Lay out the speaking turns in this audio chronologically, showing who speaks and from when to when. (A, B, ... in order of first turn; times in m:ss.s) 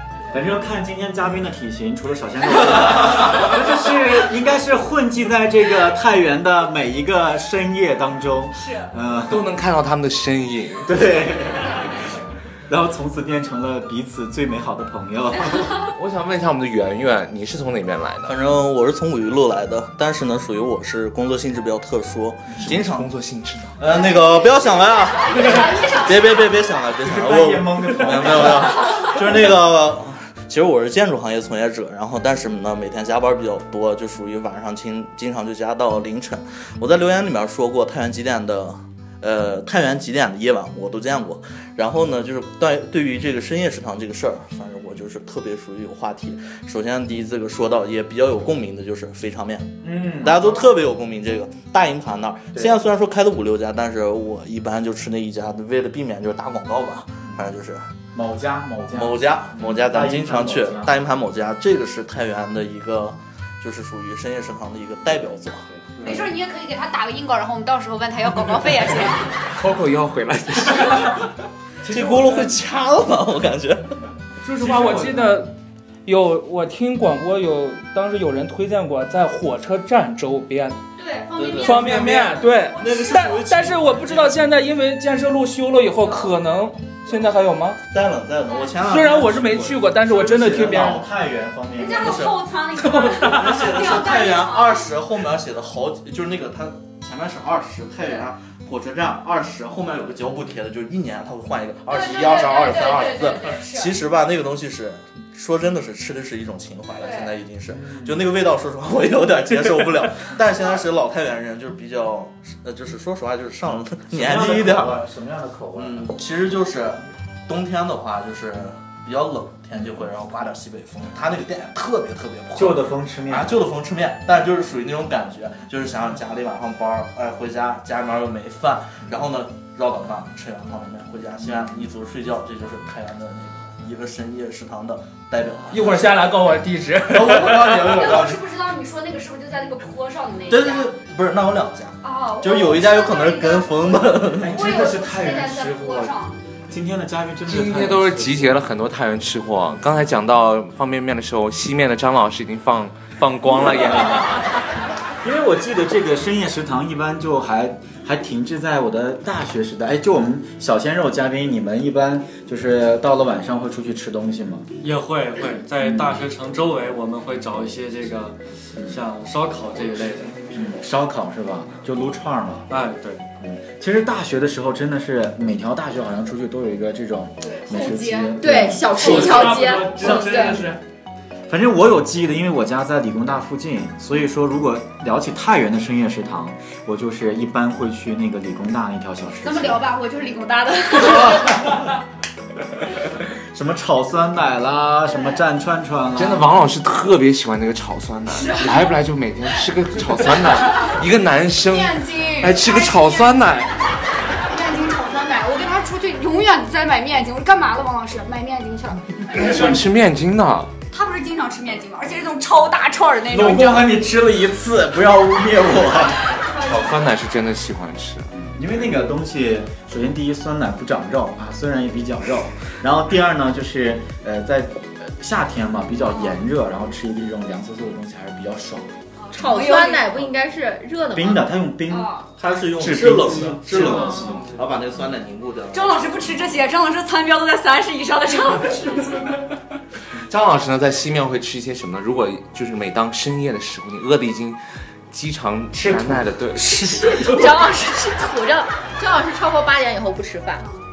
0:00.3-0:09.5 A
0:08.6-0:08.9 B
0:09.3-0:11.0 C
0:10.8-0:11.8 A
0:12.7-0:15.7 A
0:15.8-0:18.4 C
0:18.3-0:23.1 D
0:22.6-0:23.8 C
0:23.8-0:57.9 D
0:24.2-0:26.4 B
0:27.0-0:28.9 A
0:49.8-0:50.6 A
0:58.1-1:00.9 A
0:58.9-1:06.1 D
1:05.8-1:06.3 A
1:06.0-1:09.3 B
1:09.5-1:11.2 C
1:11.9-1:12.4 A
1:11.9-1:13.9 D
1:14.4-1:15.5 E
1:16.0-1:20.8 E
1:21.0-1:23.5 B
1:21.4-1:24.4 D
1:21.6-1:27.8 E
1:27.9-1:31.0 D
1:28.5-1:28.7 B
1:28.8-1:31.0 E
1:30.3-1:32.2 A
1:31.8-1:34.9 B
1:32.0-1:32.4 D
1:32.8-1:33.7 E
1:33.2-1:55.0 D
1:41.9-1:44.0 B
1:47.0-1:47.3 B
1:47.7-1:48.3 A
1:54.1-1:56.1 A
1:55.8-2:16.2 D
2:02.5-2:03.6 A
2:15.7-2:17.8 E
2:17.1-2:18.5 D
2:17.8-2:21.0 B
2:20.5-2:24.6 D
2:22.0-2:26.4 B
2:24.4-2:26.2 A
2:26.7-2:28.6 A
2:27.5-2:34.6 C
2:35.2-2:44.7 A
2:44.8-2:50.4 F
2:45.8-2:46.3 A
2:50.5-2:52.7 A
2:52.7-2:53.2 F
2:53.4-2:59.2 A
2:57.4-2:58.4 B
2:58.4-3:00.7 G
2:58.9-3:00.8 E
3:00.2-3:00.7 B
3:01.5-3:09.8 A
3:09.4-3:11.7 B
3:11.2-3:11.5 A
3:13.5-3:16.5 A
3:16.2-3:23.7 C
3:18.3-3:19.0 B
3:20.2-3:21.0 B
3:21.6-3:23.5 B
3:24.5-3:29.6 B
3:29.3-3:30.7 C
3:29.5-3:29.8 E
3:30.9-3:34.0 B
3:33.3-3:36.3 A
3:36.3-3:37.0 B
3:36.6-3:38.3 C
3:38.4-3:48.9 A
3:46.1-3:46.4 B
3:49.2-3:50.3 B
3:49.3-3:51.5 G
3:51.1-3:52.1 A
3:51.9-3:52.3 B
3:52.4-3:56.2 D
3:52.8-3:54.4 A
3:54.0-3:54.3 B
3:55.7-3:59.3 B
4:00.3-4:07.2 C
4:05.7-4:07.4 A
4:06.6-4:10.6 G
4:10.6-4:10.8 B